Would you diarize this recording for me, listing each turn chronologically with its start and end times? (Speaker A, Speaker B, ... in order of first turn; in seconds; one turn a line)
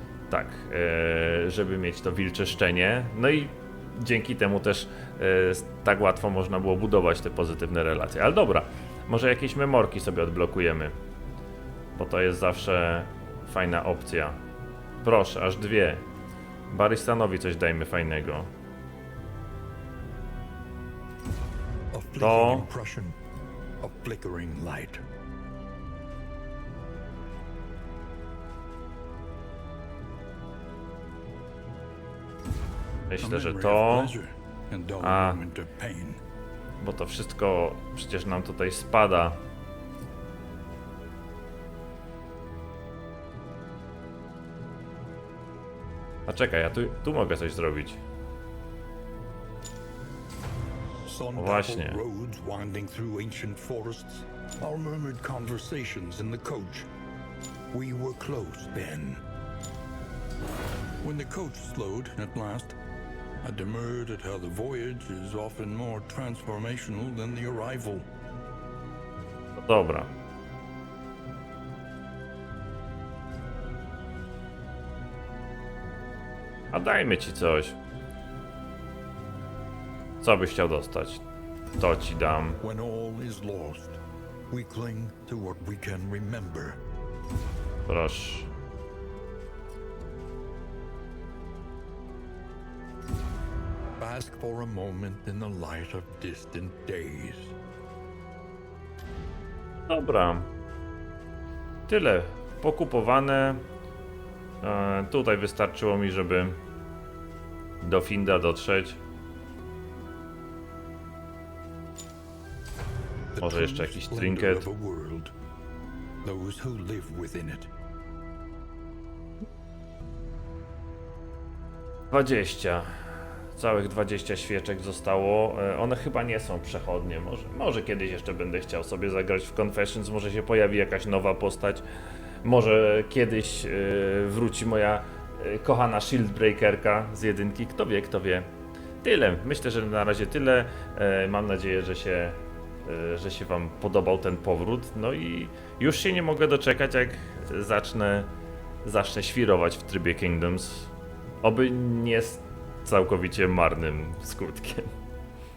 Speaker A: 0.3-10.9
Speaker A: 12.0-14.4
Speaker A: 15.0-16.0
Speaker A: 16.7-18.5
Speaker B: 21.9-23.2
Speaker A: 22.2-22.7
Speaker B: 23.8-25.0
Speaker A: 33.1-34.1
Speaker B: 33.2-36.2
Speaker A: 35.0-35.4
Speaker A: 36.8-39.4
Speaker A: 46.3-48.0
Speaker B: 51.0-56.9
Speaker A: 51.4-52.0
Speaker B: 57.7-59.2
Speaker B: 61.0-62.7
Speaker B: 63.4-68.1
Speaker A: 69.5-70.1
Speaker A: 76.7-77.8
Speaker A: 80.2-81.2
Speaker A: 81.8-82.6
Speaker B: 82.6-86.8
Speaker A: 87.8-88.5
Speaker B: 94.0-97.5
Speaker A: 99.9-100.5
Speaker A: 101.9-103.6
Speaker A: 104.6-106.6
Speaker A: 107.8-109.0
Speaker B: 113.3-115.3
Speaker A: 113.4-114.7
Speaker B: 116.2-117.7
Speaker A: 122.1-131.8
Speaker A: 132.4-138.5
Speaker A: 139.0-148.3
Speaker A: 148.8-150.9
Speaker A: 151.4-154.9